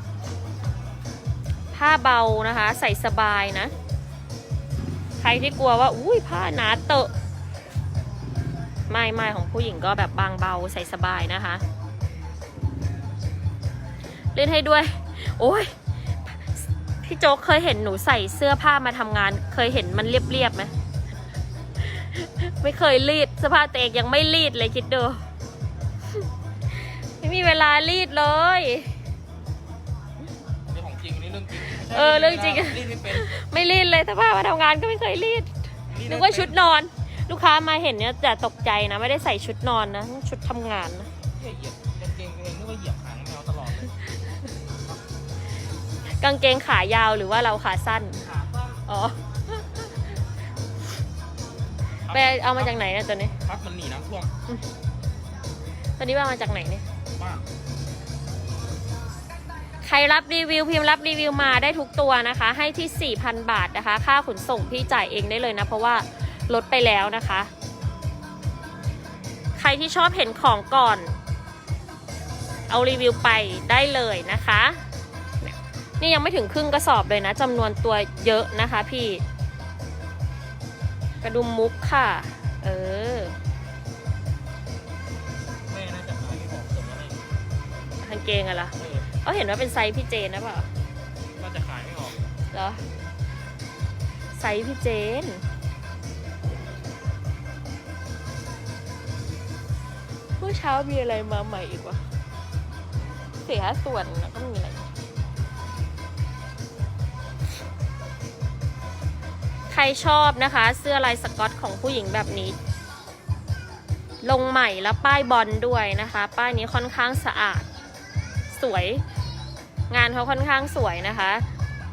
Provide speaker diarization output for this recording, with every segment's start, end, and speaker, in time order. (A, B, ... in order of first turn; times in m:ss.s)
0:01.7-0:03.7 A
0:05.2-0:07.1 A
0:08.9-0:11.6 A
0:14.3-0:15.7 A
0:17.0-0:20.7 A
0:21.9-0:25.2 A
0:27.2-0:28.9 A
0:30.7-0:33.3 B
0:31.6-0:41.1 A
0:35.9-0:36.6 B
0:41.3-0:44.0 B
0:46.2-0:48.2 A
0:48.2-0:48.8 B
0:48.8-0:49.9 A
0:52.1-0:54.3 B
0:52.1-0:53.3 A
0:56.0-0:56.8 A
0:57.1-0:57.4 B
0:59.8-1:07.5 A
1:09.6-1:11.2 A
1:12.7-1:14.8 A
1:15.4-1:19.2 A
1:21.2-1:23.3 A
1:25.7-1:27.2 B
1:28.0-1:28.7 A
1:28.8-1:29.1 B
1:29.2-1:30.7 A
1:31.4-1:32.3 B
1:32.5-1:32.8 A
1:34.4-1:35.4 A
1:40.4-1:42.0 A
1:43.4-1:44.9 A
1:49.7-1:52.6 A
1:54.2-1:57.7 A
1:58.5-1:59.0 A
1:59.9-2:01.4 A